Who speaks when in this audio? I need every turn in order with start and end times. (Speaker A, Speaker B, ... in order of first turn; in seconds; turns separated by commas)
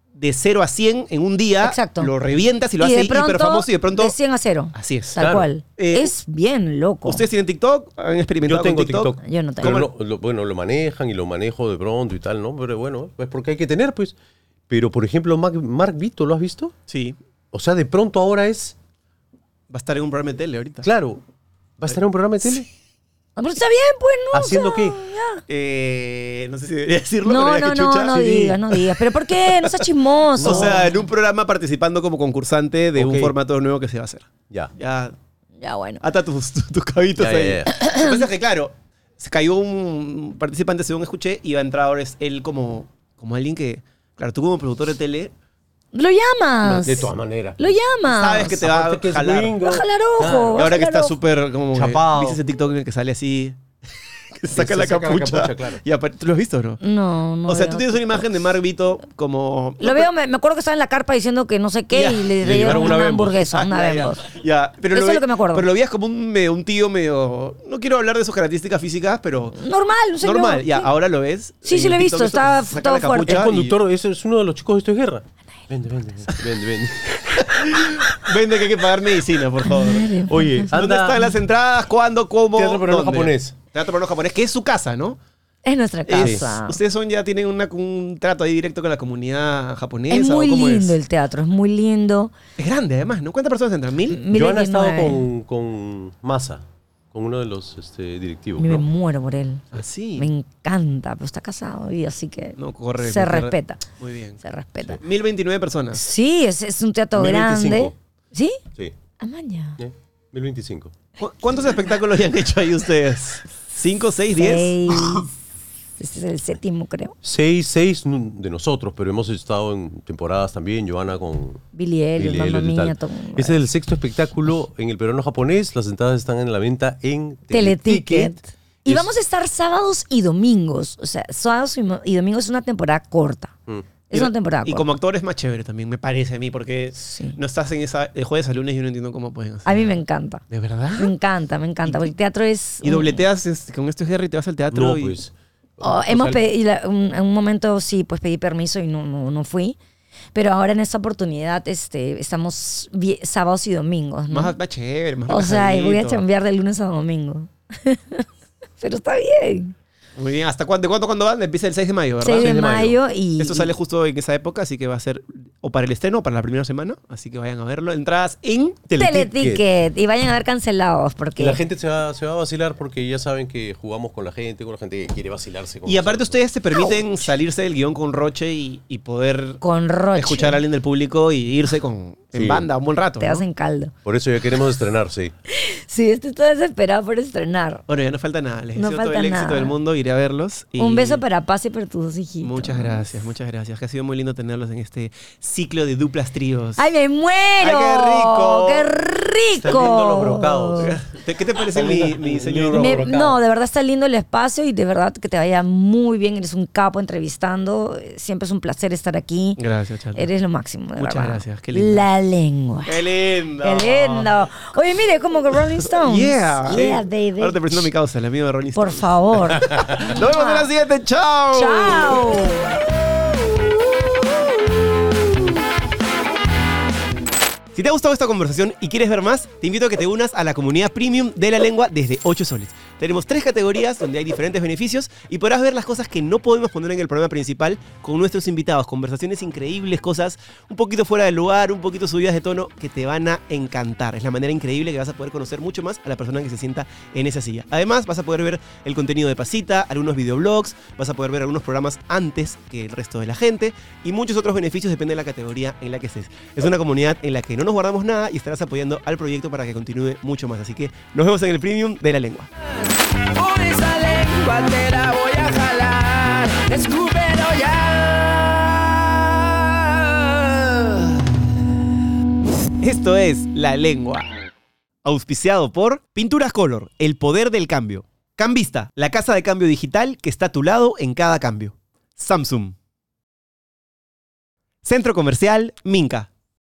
Speaker A: 0.1-4.1, Speaker B: 1.6-2.1, Speaker B: 2.8-7.2, Speaker A: 4.8-5.2, Speaker C: 5.2-5.5, Speaker A: 5.8-6.1, Speaker A: 7.0-9.9, Speaker C: 8.4-14.2, Speaker B: 9.2-9.8, Speaker C: 14.7-16.7, Speaker A: 16.9-17.2, Speaker C: 17.5-18.8, Speaker A: 19.7-20.9, Speaker C: 20.8-21.2, Speaker C: 21.8-22.7, Speaker B: 23.4-25.4, Speaker C: 24.3-25.0, Speaker A: 25.5-29.9, Speaker B: 27.2-31.1, Speaker C: 28.2-28.6, Speaker C: 30.4-30.9, Speaker A: 30.4-35.2, Speaker C: 33.0-33.4, Speaker B: 35.6-36.0, Speaker A: 36.0-45.3, Speaker C: 37.2-37.8, Speaker B: 37.7-38.2, Speaker B: 45.9-48.6, Speaker C: 46.6-47.7, Speaker A: 48.1-49.5, Speaker C: 48.5-50.8, Speaker B: 49.6-51.1, Speaker A: 50.5-53.6, Speaker C: 51.7-52.4, Speaker A: 54.4-56.8, Speaker C: 54.5-55.8, Speaker B: 56.8-58.2, Speaker A: 57.5-60.1, Speaker B: 59.8-64.2, Speaker A: 61.9-69.6, Speaker C: 62.4-63.4, Speaker B: 64.9-65.7, Speaker B: 69.6-70.9, Speaker A: 70.2-73.8, Speaker B: 71.6-73.4, Speaker C: 73.2-77.5, Speaker A: 77.3-80.1, Speaker B: 79.6-80.7, Speaker C: 80.3-81.2, Speaker A: 80.7-85.2, Speaker C: 82.5-83.6, Speaker B: 85.6-86.8, Speaker A: 86.1-91.0, Speaker B: 90.1-92.3, Speaker A: 92.6-94.2, Speaker B: 94.1-95.2, Speaker C: 94.3-98.8, Speaker B: 98.6-103.8, Speaker A: 99.7-100.3, Speaker A: 102.6-104.4, Speaker B: 104.4-105.0, Speaker A: 105.0-106.0, Speaker B: 105.9-108.6, Speaker C: 107.1-108.0, Speaker B: 109.2-109.8, Speaker C: 109.8-110.9, Speaker A: 111.2-115.3, Speaker B: 114.3-115.3, Speaker B: 116.0-117.2, Speaker C: 117.2-121.6, Speaker B: 121.8-123.6, Speaker C: 122.2-129.1, Speaker B: 127.5-133.6, Speaker B: 134.1-134.9, Speaker A: 134.1-139.9, Speaker B: 137.0-137.4, Speaker B: 139.7-143.2, Speaker A: 140.5-141.1, Speaker A: 142.8-145.2, Speaker C: 144.7-146.4, Speaker B: 145.8-149.8, Speaker B: 150.3-154.6, Speaker A: 154.3-156.2, Speaker B: 155.3-158.3, Speaker B: 158.8-159.7, Speaker A: 160.2-162.8, Speaker B: 162.2-163.7, Speaker C: 162.3-163.0, Speaker A: 163.4-168.8, Speaker C: 168.9-169.6, Speaker B: 168.9-171.6, Speaker C: 171.4-176.4, Speaker A: 175.8-179.6, Speaker B: 179.6-180.6, Speaker A: 180.2-183.4, Speaker C: 182.3-182.7, Speaker B: 183.2-183.9, Speaker C: 184.1-185.3, Speaker B: 185.5-187.8, Speaker A: 187.9-191.2, Speaker B: 188.8-189.8, Speaker B: 190.8-193.3, Speaker A: 192.4-196.8, Speaker B: 196.8-200.9, Speaker A: 197.6-198.9, Speaker C: 199.6-201.0, Speaker A: 200.8-203.3, Speaker C: 201.6-203.4, Speaker B: 202.8-209.6, Speaker A: 209.6-210.3, Speaker B: 210.2-213.0, Speaker A: 211.0-212.1, Speaker A: 212.9-214.3, Speaker B: 213.6-217.8, Speaker A: 215.8-222.6, Speaker B: 218.8-220.7, Speaker B: 221.5-222.8, Speaker A: 227.7-262.5, Speaker D: 262.8-271.2, Speaker A: 272.8-274.3, Speaker A: 275.0-282.8, Speaker A: 284.8-286.3